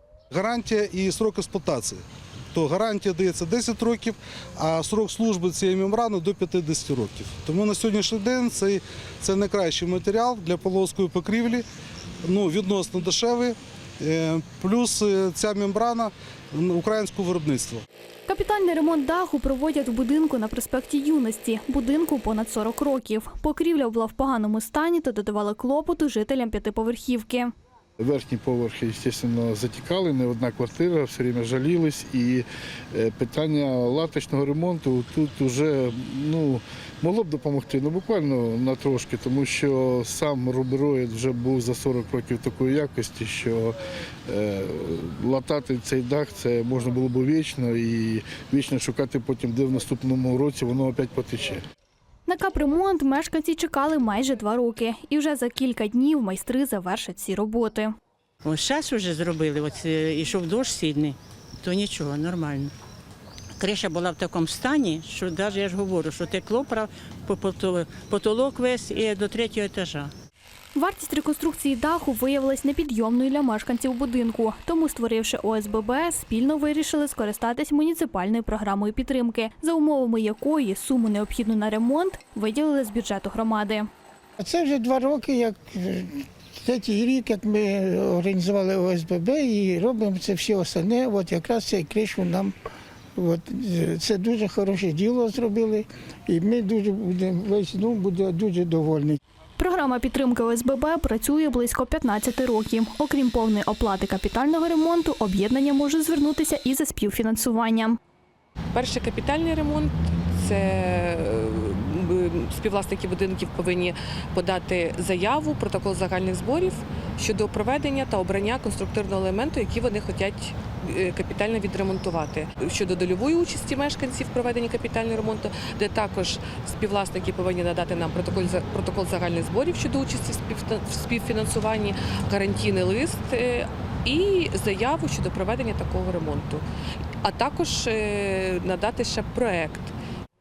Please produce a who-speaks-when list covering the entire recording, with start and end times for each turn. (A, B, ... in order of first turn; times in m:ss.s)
0:00.3-0:02.0 A
0:02.5-0:11.6 A
0:12.2-0:17.8 A
0:18.3-0:27.5 B
0:28.0-0:43.8 C
0:44.3-0:51.6 C
0:52.3-0:57.9 B
0:58.4-1:02.7 D
1:03.6-1:10.1 D
1:10.7-1:23.9 B
1:24.4-1:32.5 E
1:33.2-1:39.2 E
1:39.6-1:48.0 B
1:48.7-2:16.6 F
2:17.2-2:19.9 F